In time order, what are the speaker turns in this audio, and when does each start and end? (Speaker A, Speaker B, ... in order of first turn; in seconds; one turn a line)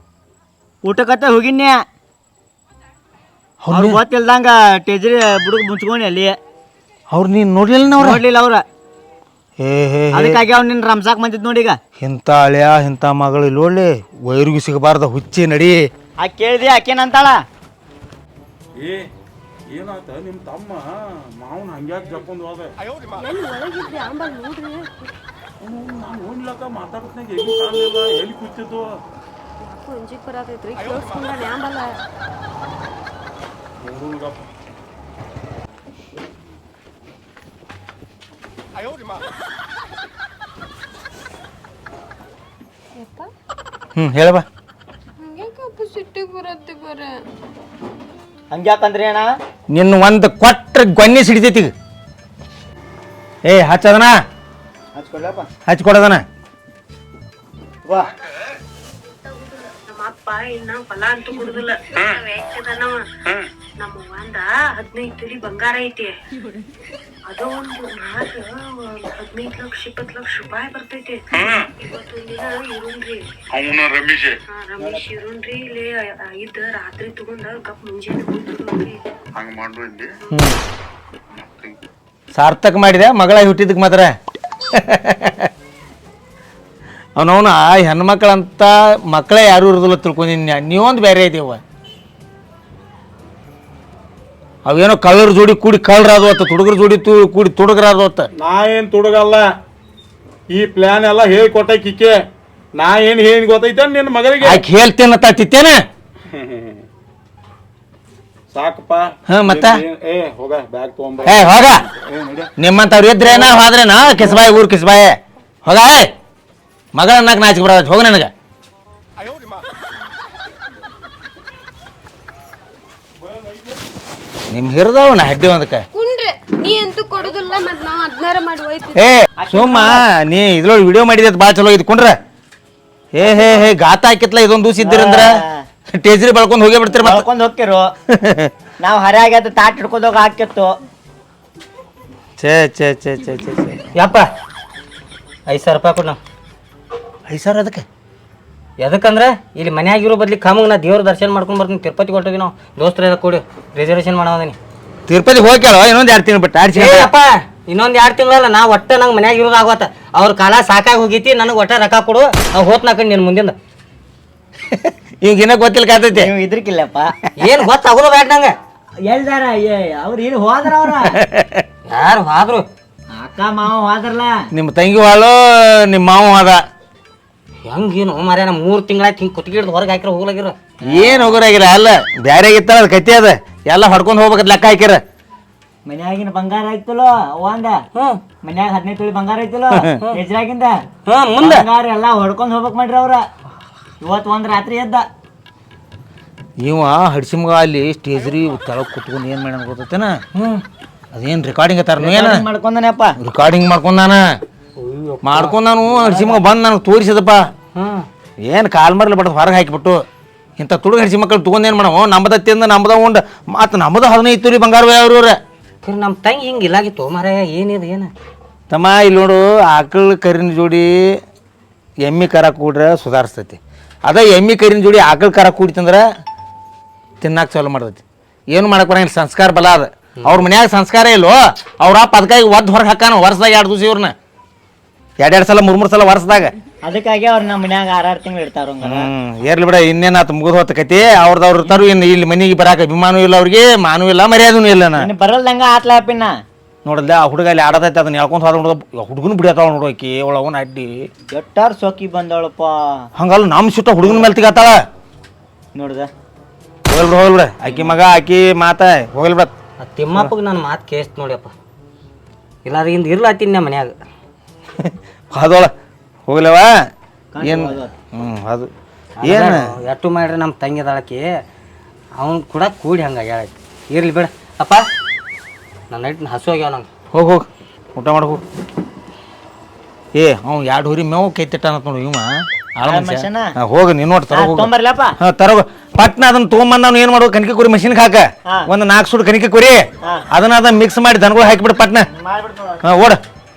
Speaker A: 0.8-1.9
Speaker B: 3.6-4.0
Speaker A: 3.7-6.4
Speaker B: 7.1-8.2
Speaker A: 8.0-8.6
Speaker B: 9.6-10.4
Speaker A: 10.1-11.8
Speaker B: 12.0-15.9
Speaker A: 16.2-17.4
Speaker C: 18.8-19.1
Speaker C: 19.7-22.7
Speaker D: 23.1-25.1
Speaker C: 25.6-29.0
Speaker D: 29.6-31.9
Speaker C: 33.8-34.5
Speaker D: 43.0-43.3
Speaker B: 44.0-44.4
Speaker D: 45.2-47.2
Speaker A: 48.5-49.3
Speaker B: 49.7-51.7
Speaker B: 53.4-54.1
Speaker A: 54.9-55.5
Speaker B: 55.7-56.2
Speaker A: 57.8-58.1
Speaker D: 58.8-63.0
Speaker C: 61.9-62.2
Speaker D: 63.8-66.2
Speaker D: 67.3-73.2
Speaker C: 71.3-71.7
Speaker C: 73.5-74.4
Speaker D: 74.5-79.0
Speaker A: 74.8-75.0
Speaker C: 79.4-80.1
Speaker B: 80.3-80.6
Speaker C: 81.3-81.8
Speaker B: 82.3-84.1
Speaker B: 84.7-85.5
Speaker B: 87.2-91.6
Speaker B: 94.6-98.3
Speaker C: 98.3-99.5
Speaker C: 100.5-102.2
Speaker C: 102.8-104.6
Speaker B: 104.4-105.8
Speaker C: 106.2-106.8
Speaker C: 108.5-112.5
Speaker B: 109.3-109.8
Speaker B: 111.2-111.8
Speaker B: 112.6-116.1
Speaker C: 113.2-114.5
Speaker B: 116.9-118.3
Speaker C: 123.2-123.8
Speaker B: 124.5-125.8
Speaker D: 125.9-129.0
Speaker B: 128.9-132.2
Speaker A: 129.4-130.0
Speaker B: 133.1-135.4
Speaker A: 133.2-133.6
Speaker A: 134.8-135.7
Speaker B: 135.9-137.2
Speaker A: 136.9-137.9
Speaker B: 138.1-138.5
Speaker A: 138.8-140.8
Speaker B: 142.4-143.9
Speaker E: 143.9-144.3
Speaker E: 145.5-146.2
Speaker B: 147.3-147.8
Speaker E: 148.8-154.6
Speaker B: 155.1-157.1
Speaker E: 156.7-163.5
Speaker B: 164.7-166.3
Speaker A: 166.1-167.1
Speaker E: 167.4-168.5
Speaker A: 169.0-171.2
Speaker B: 171.1-171.6
Speaker E: 171.9-172.7
Speaker A: 173.1-174.5
Speaker B: 174.5-176.6
Speaker E: 177.6-180.5
Speaker A: 180.8-181.4
Speaker B: 180.8-185.0
Speaker A: 185.8-187.8
Speaker E: 187.9-188.2
Speaker A: 188.4-190.8
Speaker E: 191.1-191.7
Speaker A: 191.4-193.3
Speaker A: 194.0-195.1
Speaker B: 196.6-200.2
Speaker E: 200.3-200.6
Speaker B: 201.1-202.4
Speaker A: 202.0-203.1
Speaker B: 203.2-204.2
Speaker E: 204.8-205.5
Speaker B: 205.2-207.5
Speaker A: 206.0-206.4
Speaker E: 207.7-208.1
Speaker B: 208.4-210.0
Speaker B: 210.6-215.4
Speaker E: 215.8-218.1
Speaker B: 218.7-221.2
Speaker B: 222.0-226.0
Speaker B: 227.2-234.1
Speaker B: 235.2-236.5
Speaker A: 236.8-239.1
Speaker B: 238.8-245.1
Speaker A: 245.0-246.3
Speaker B: 246.8-251.1
Speaker A: 251.3-253.1
Speaker B: 253.2-254.8
Speaker A: 254.0-254.3
Speaker A: 255.7-256.1
Speaker B: 256.9-259.5
Speaker E: 259.8-261.5
Speaker E: 262.6-263.9
Speaker B: 264.8-265.7
Speaker B: 266.3-266.7
Speaker A: 267.3-267.9
Speaker B: 267.4-268.7
Speaker E: 269.2-271.4
Speaker B: 269.2-269.7
Speaker E: 272.2-274.8
Speaker E: 275.9-276.9
Speaker B: 277.1-278.4
Speaker B: 280.1-292.1
Speaker A: 282.8-283.5
Speaker A: 284.3-285.1
Speaker A: 292.1-292.8
Speaker B: 292.8-293.2